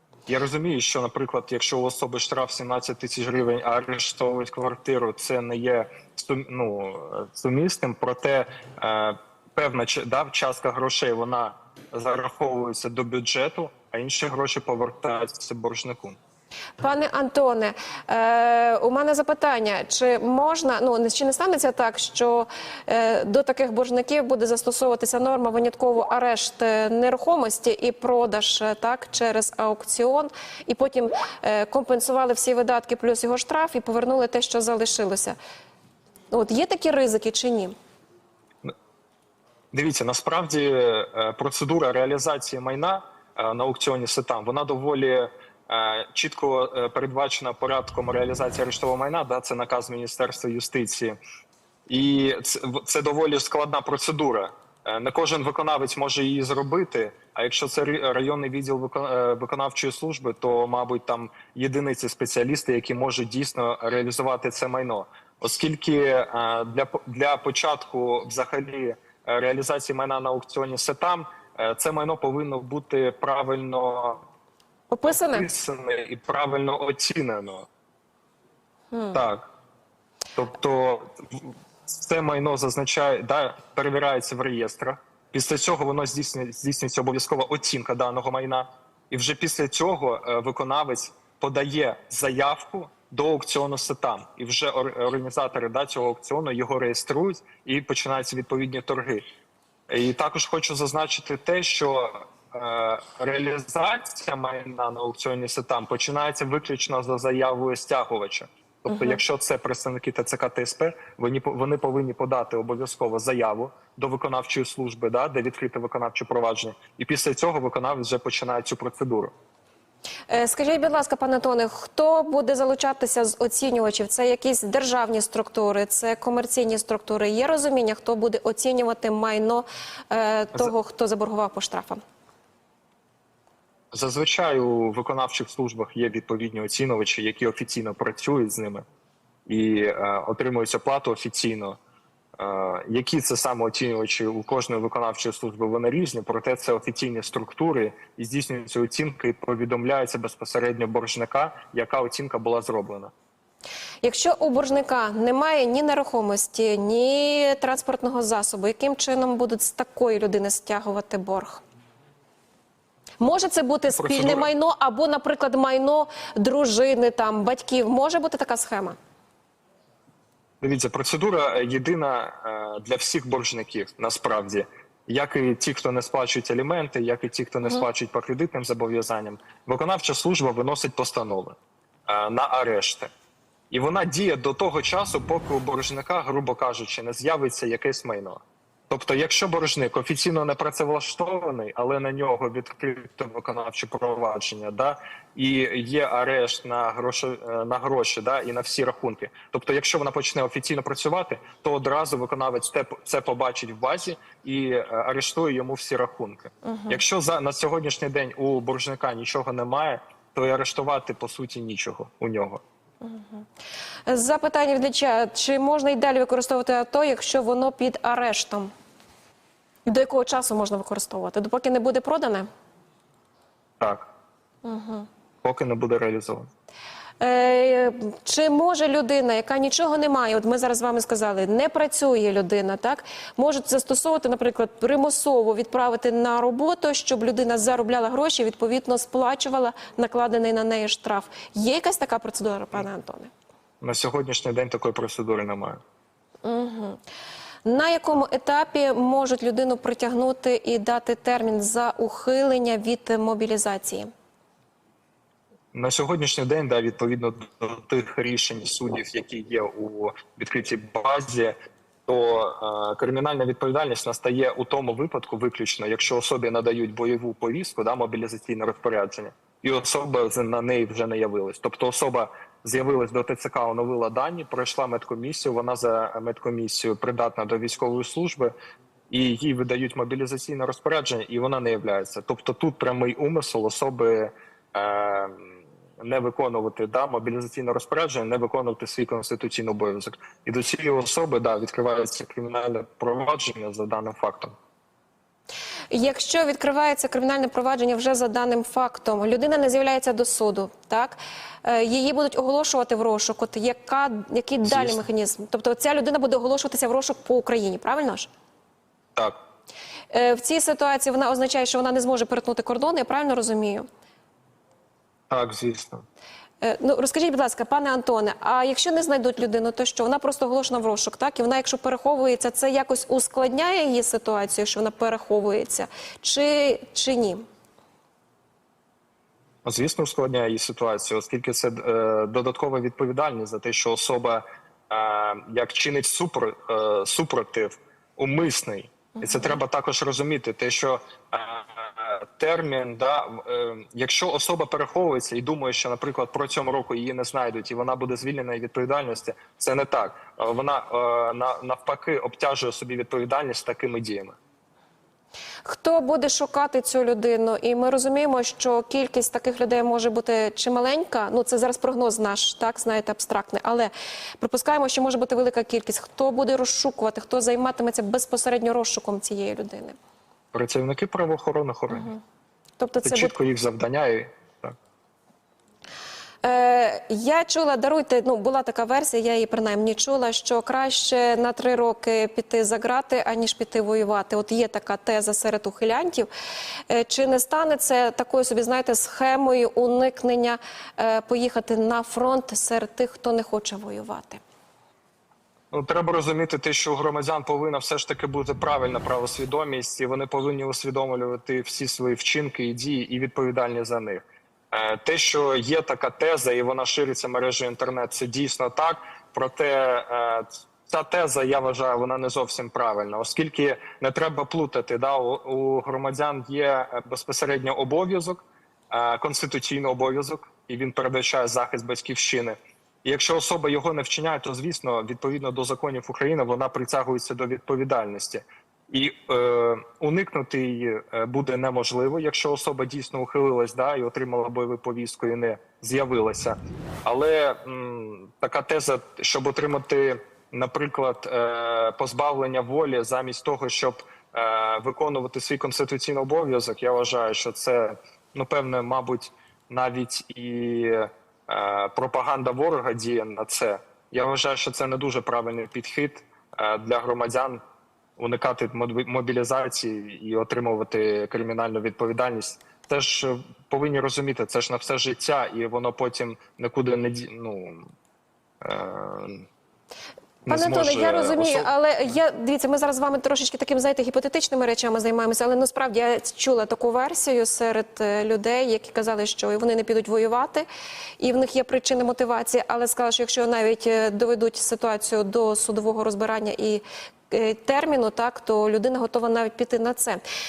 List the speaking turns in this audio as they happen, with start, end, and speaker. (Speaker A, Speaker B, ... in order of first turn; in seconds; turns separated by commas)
Speaker A: 0.3-16.2, Speaker B: 16.8-35.4, Speaker B: 36.3-37.7, Speaker A: 39.7-51.1, Speaker A: 51.9-74.2, Speaker B: 74.9-75.5, Speaker A: 75.0-77.7, Speaker B: 78.9-79.2, Speaker A: 79.1-79.5, Speaker A: 80.3-99.2, Speaker A: 99.9-119.3, Speaker B: 108.9-109.2, Speaker B: 120.3-132.0, Speaker A: 133.9-138.8, Speaker A: 139.5-141.8, Speaker A: 142.4-153.1, Speaker B: 154.0-161.6, Speaker B: 163.2-169.0, Speaker A: 163.9-164.5, Speaker A: 170.6-183.1, Speaker A: 183.7-212.6, Speaker B: 206.6-207.0, Speaker B: 213.0-213.4, Speaker B: 214.1-218.7, Speaker B: 219.8-222.5, Speaker A: 223.8-224.1, Speaker B: 224.6-225.1, Speaker A: 225.4-226.5, Speaker B: 227.2-243.3, Speaker A: 243.8-245.8, Speaker B: 246.4-247.0, Speaker B: 247.6-254.1, Speaker A: 255.7-261.5, Speaker A: 262.1-278.5, Speaker A: 279.1-294.5, Speaker B: 295.9-308.3, Speaker A: 304.6-305.0, Speaker B: 310.1-313.8, Speaker A: 315.3-316.0, Speaker B: 316.6-327.4, Speaker A: 329.6-354.4, Speaker B: 339.2-339.6, Speaker B: 355.6-369.9, Speaker A: 370.5-372.1, Speaker B: 371.9-372.2, Speaker B: 372.8-373.3, Speaker A: 373.0-374.7, Speaker B: 376.4-386.3, Speaker B: 386.9-394.4, Speaker A: 395.7-457.6, Speaker A: 458.2-467.9, Speaker A: 468.6-469.5, Speaker A: 470.4-471.7, Speaker B: 470.5-480.7, Speaker B: 481.2-490.2